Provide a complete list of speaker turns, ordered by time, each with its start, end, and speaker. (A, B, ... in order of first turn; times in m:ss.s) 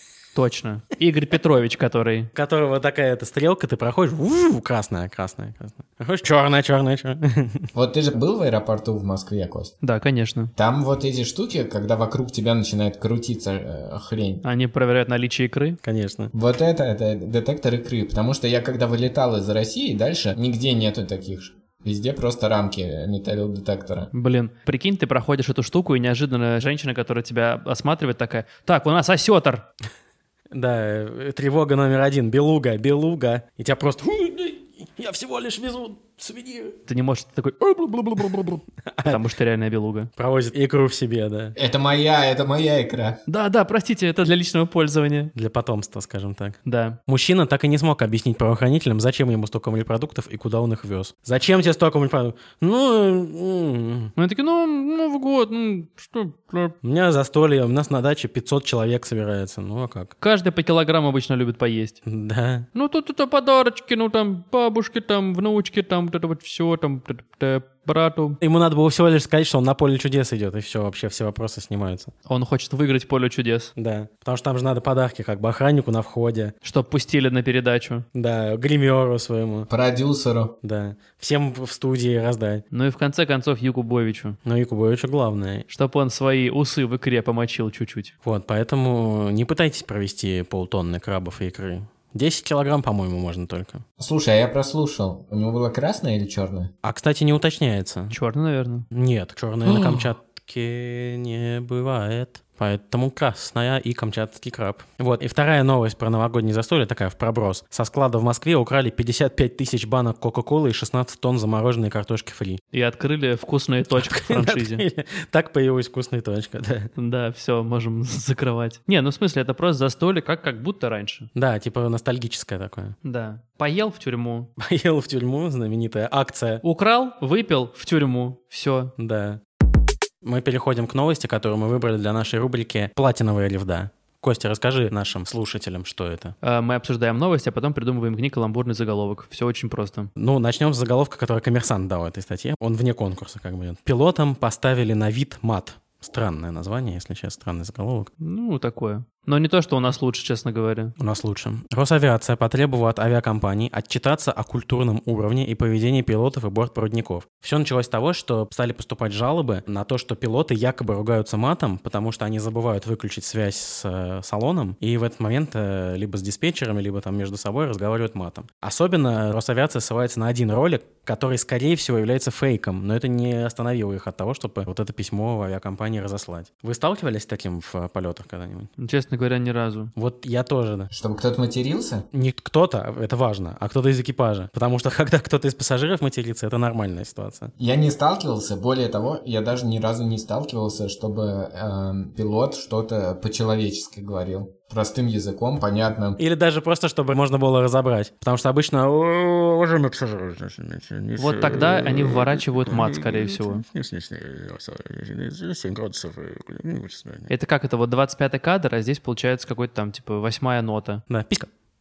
0:00.4-0:02.3 A
0:02.3-0:07.7 B
0:07.7-0:09.7 C
0:09.8-0:10.5 A
0:10.6-0:14.4 C
0:14.4-0:15.8 A
0:15.8-0:16.3 B
0:16.3-0:24.1 C
0:24.1-0:29.7 A
0:30.5-0:36.8 B
0:36.9-0:40.1 A
0:38.2-0:39.2 B
0:40.2-0:41.6 B
0:41.6-0:43.2 C
0:43.3-0:45.3 A
0:45.4-0:54.1 B
0:46.6-0:47.0 A
0:54.2-0:56.8 A
0:56.8-1:00.1 B
1:00.2-1:02.0 A
1:02.0-1:02.7 B
1:02.7-1:08.4 A
1:08.4-1:12.1 B
1:12.3-1:13.7 A
1:13.8-1:16.5 B
1:16.6-1:18.0 A
1:18.1-1:19.7 B
1:19.7-1:20.6 C
1:20.6-1:22.6 B
1:22.7-1:24.4 A
1:24.4-1:25.6 B
1:25.7-1:28.1 A
1:28.2-1:33.8 B
1:34.0-1:36.7 C
1:36.8-1:38.1 B
1:38.1-1:38.9 A
1:38.9-1:52.6 B
1:52.7-1:54.8 A
1:54.0-1:56.9 B
1:57.0-2:01.3 A
2:01.4-2:03.0 B
2:03.0-2:04.5 A
2:04.6-2:06.6 B
2:06.6-2:08.9 A
2:09.0-2:09.4 B
2:10.2-2:16.4 B
2:16.4-2:20.1 A
2:20.2-2:28.1 B
2:28.2-2:30.9 A
2:31.0-2:58.7 B
2:58.8-2:59.9 A
3:00.0-3:00.9 B
3:00.9-3:02.0 C
3:02.1-3:07.5 B
3:07.6-3:16.2 C
3:16.2-3:27.3 B
3:21.2-3:23.6 A
3:27.3-3:31.0 A
3:31.1-3:31.5 B